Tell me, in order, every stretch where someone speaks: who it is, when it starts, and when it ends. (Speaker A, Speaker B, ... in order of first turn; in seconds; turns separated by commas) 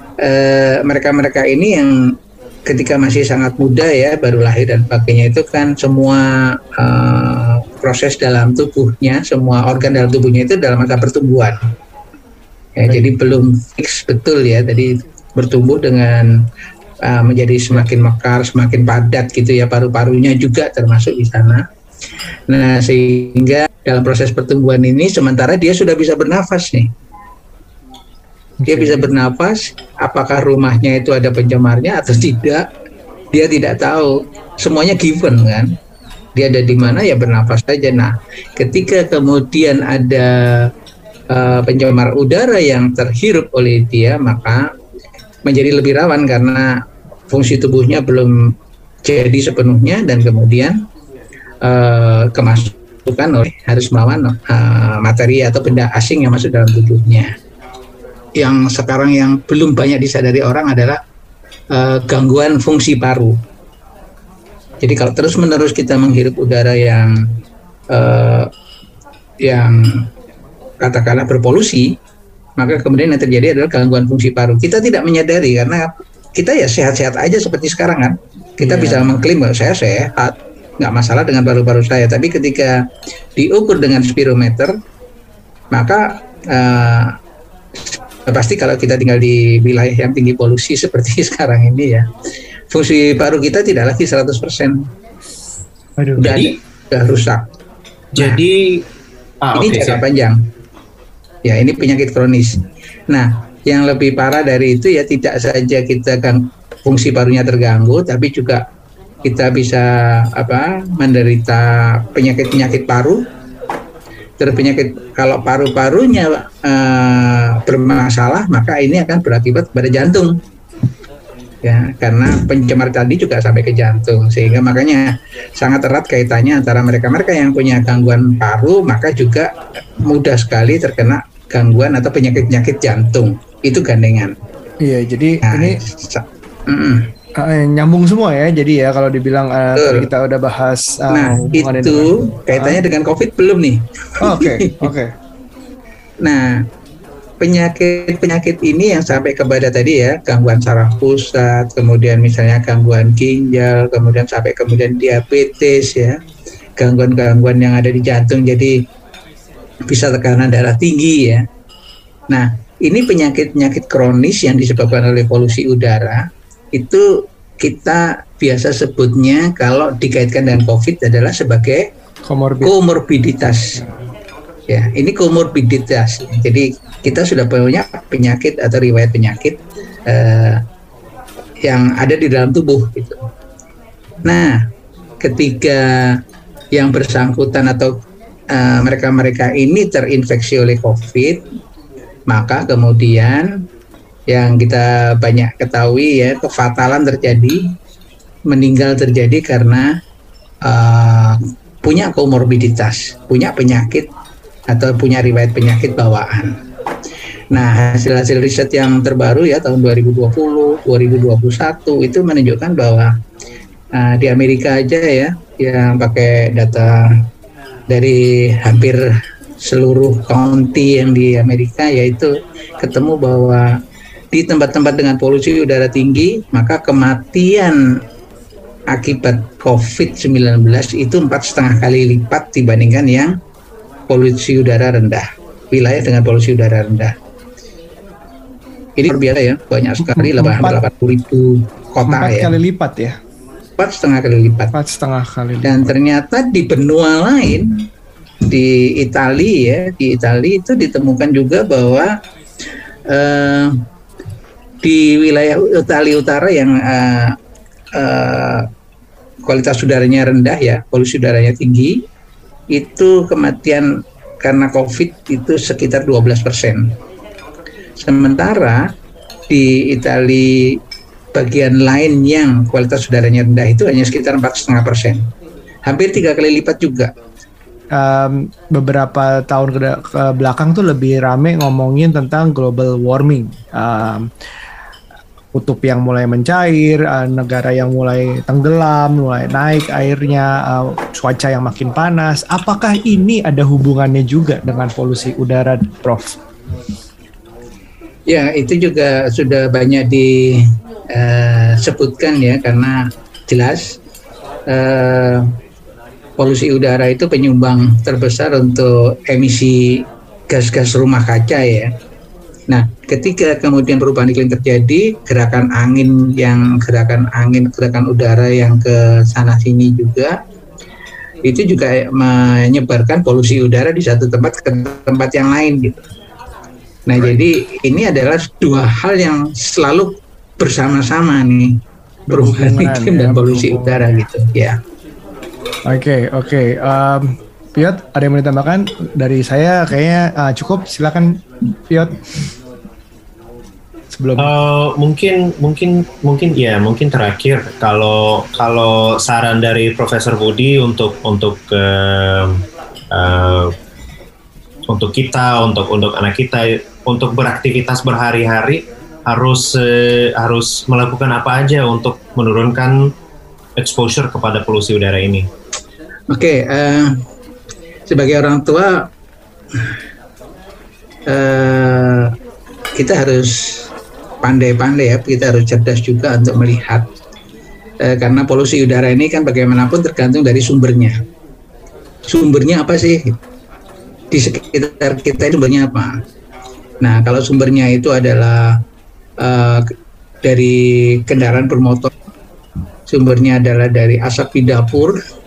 Speaker A: 0.2-2.1, Speaker A: 2.6-11.6, Speaker A: 12.8-16.3, Speaker A: 17.0-21.6, Speaker A: 22.5-26.9, Speaker B: 28.6-29.1, Speaker A: 28.7-32.6, Speaker A: 33.3-35.7, Speaker A: 36.4-40.7, Speaker B: 36.7-37.0, Speaker A: 41.3-44.7, Speaker A: 45.4-46.8, Speaker A: 47.3-48.5, Speaker A: 49.0-50.8, Speaker A: 51.6-57.3, Speaker A: 58.4-61.0, Speaker A: 61.7-63.4, Speaker A: 64.8-67.2, Speaker A: 67.9-68.5, Speaker A: 69.4-70.1, Speaker A: 70.8-72.0, Speaker A: 72.6-82.8, Speaker B: 78.6-79.2, Speaker A: 83.3-84.8, Speaker A: 85.7-87.2, Speaker A: 87.9-92.1, Speaker A: 92.7-94.9, Speaker B: 96.0-96.4, Speaker A: 96.2-97.4, Speaker C: 96.2-96.5, Speaker C: 98.1-98.8, Speaker A: 98.2-98.4, Speaker C: 99.4-100.0, Speaker A: 99.5-100.4, Speaker A: 101.4-108.6, Speaker A: 109.2-113.2, Speaker A: 114.4-120.4, Speaker A: 121.6-129.5, Speaker A: 130.0-134.3, Speaker B: 134.8-135.8, Speaker A: 135.4-137.1, Speaker B: 137.3-142.8, Speaker A: 139.7-140.1, Speaker A: 141.1-144.9, Speaker B: 144.2-145.1, Speaker A: 146.2-146.7, Speaker A: 147.4-156.2, Speaker A: 156.8-158.8, Speaker A: 159.9-161.4, Speaker A: 162.3-171.9, Speaker B: 172.2-172.7, Speaker A: 172.6-173.8, Speaker A: 174.7-180.6, Speaker A: 181.6-183.2, Speaker A: 184.2-184.7, Speaker A: 185.2-186.2, Speaker A: 186.7-187.9, Speaker A: 188.5-191.4, Speaker A: 192.3-193.5, Speaker A: 194.3-197.6, Speaker A: 198.5-199.9, Speaker A: 200.6-204.1, Speaker A: 204.7-206.6, Speaker A: 207.5-213.1, Speaker A: 213.9-217.0, Speaker A: 217.9-219.0, Speaker A: 219.6-223.8, Speaker A: 224.3-228.0, Speaker A: 228.9-233.4, Speaker A: 234.1-237.2, Speaker A: 239.0-242.5, Speaker B: 240.1-240.8, Speaker B: 242.1-243.2, Speaker A: 243.8-244.7, Speaker B: 244.7-245.9, Speaker A: 245.6-247.9, Speaker A: 248.5-252.1, Speaker A: 253.1-253.7, Speaker A: 254.8-257.4, Speaker A: 257.9-258.6, Speaker A: 259.4-262.0, Speaker A: 262.7-263.9, Speaker A: 264.4-266.9, Speaker A: 268.0-268.9, Speaker A: 269.5-270.8, Speaker A: 271.3-275.2, Speaker A: 275.9-277.1, Speaker B: 277.9-284.2, Speaker B: 285.5-296.4, Speaker A: 298.3-303.9, Speaker A: 304.7-305.4, Speaker A: 306.4-311.9, Speaker A: 312.7-320.4, Speaker A: 321.4-326.0, Speaker A: 327.1-331.8, Speaker B: 332.3-334.2, Speaker A: 332.3-334.8, Speaker B: 335.9-342.2, Speaker B: 344.1-344.5, Speaker C: 344.4-353.7, Speaker C: 354.9-363.1, Speaker C: 363.8-365.5, Speaker A: 366.3-367.1, Speaker A: 368.1-369.1, Speaker A: 371.3-372.3, Speaker A: 372.9-373.8, Speaker A: 374.4-377.1, Speaker A: 378.0-381.2, Speaker A: 382.3-383.4, Speaker A: 384.3-386.2, Speaker A: 387.0-388.8, Speaker A: 389.4-389.9, Speaker A: 390.4-392.1, Speaker A: 393.1-395.2